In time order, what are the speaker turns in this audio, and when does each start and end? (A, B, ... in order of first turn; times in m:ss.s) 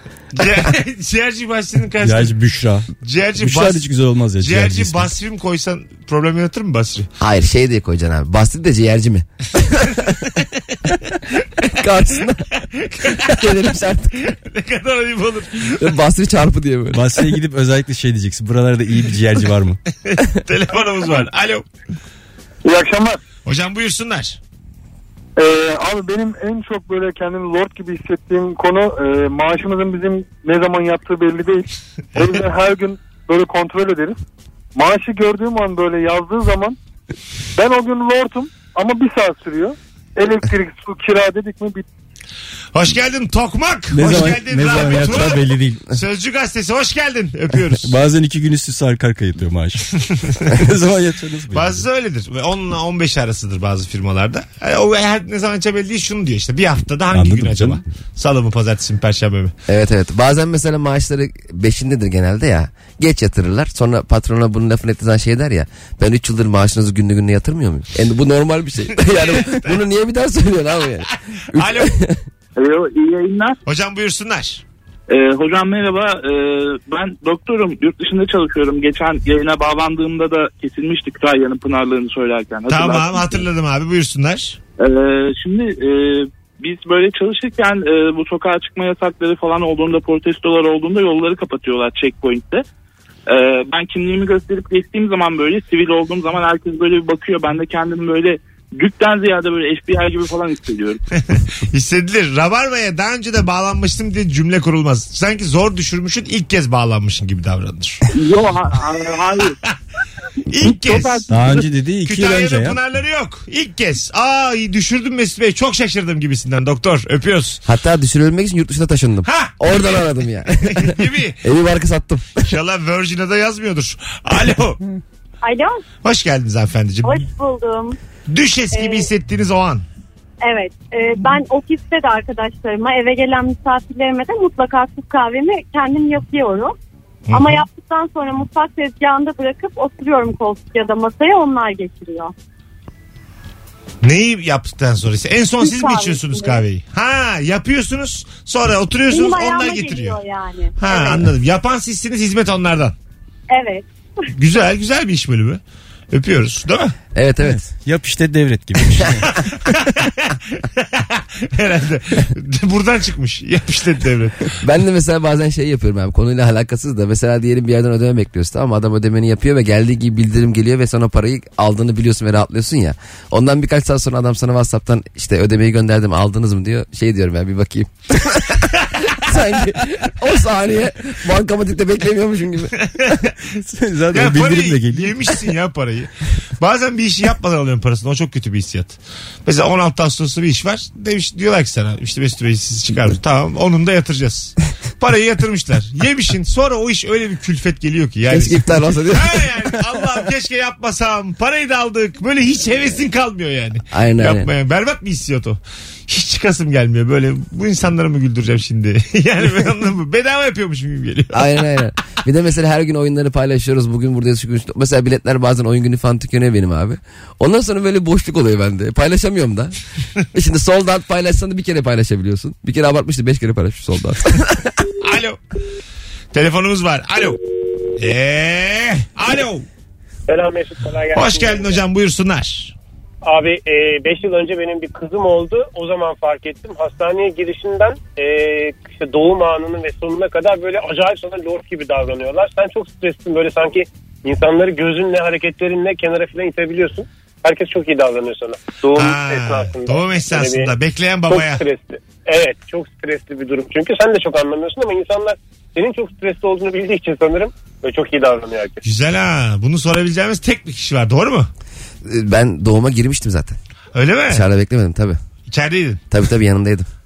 0:00.3-0:02.4 A
0:02.0-0:02.9 B
0:03.0-0:03.8 A
0:03.4-0:05.1 B
0:04.4-0:07.1 A
0:07.2-0:10.1 C
0:11.7-0:12.4 C
0:12.8-0:13.5 A
0:13.0-0:14.2 C
0:14.2-0:15.9 A
0:15.8-0:17.0 C
0:16.9-0:19.8 B
0:20.0-0:21.6 A
0:22.6-0:23.2 D
0:23.4-0:24.4 A
0:25.4-0:34.2 D
0:34.7-0:36.8 D
0:37.6-0:41.8 D
0:42.7-0:47.9 A
0:43.9-0:45.8 B
0:47.8-0:49.8 B
0:50.4-0:51.8 B
0:51.5-0:59.5 A
0:57.1-0:57.8 B
0:59.7-1:12.2 C
1:08.9-1:09.8 A
1:11.5-1:11.9 A
1:12.6-1:13.5 E
1:13.6-1:14.6 A
1:15.1-1:23.4 E
1:22.7-1:24.6 A
1:24.8-1:32.6 E
1:33.3-1:41.0 E
1:41.3-1:48.0 A
1:48.1-1:49.5 E
1:50.5-1:51.2 A
1:50.6-1:51.6 E
1:51.3-1:52.8 B
1:52.0-1:57.6 A
1:57.6-2:02.5 C
1:59.2-2:00.0 A
2:00.6-2:01.4 A
2:02.4-2:04.8 A
2:05.4-2:05.8 F
2:06.0-2:07.2 A
2:07.0-2:08.0 F
2:08.3-2:09.8 A
2:08.7-2:09.1 F
2:10.4-2:16.8 F
2:17.3-2:17.6 A
2:17.3-2:22.3 F
2:24.0-2:30.2 A
2:25.6-2:26.6 F
2:29.1-2:31.2 F
2:30.8-2:32.9 A
2:33.5-2:33.8 F
2:34.3-2:35.6 A
2:36.1-2:36.9 A
2:37.1-2:37.6 C
2:37.4-2:39.3 B
2:39.6-2:44.5 A
2:44.6-3:02.7 C
3:02.8-3:03.2 A
3:03.6-3:05.2 B
3:04.1-3:31.6 A
3:18.3-3:19.4 C
3:23.9-3:24.5 C
3:31.3-3:39.7 C
3:40.3-3:44.8 C
3:45.0-3:45.4 A
3:46.3-3:47.4 A
3:48.0-3:49.6 A
3:50.3-3:51.8 G
3:51.1-3:52.7 A
3:53.2-4:10.7 G
4:08.9-4:11.6 A
4:11.3-4:18.8 G
4:18.8-4:21.5 A
4:22.0-4:23.6 C
4:23.9-4:24.4 A
4:24.3-4:25.2 C
4:25.5-4:26.0 A
4:26.1-4:26.8 C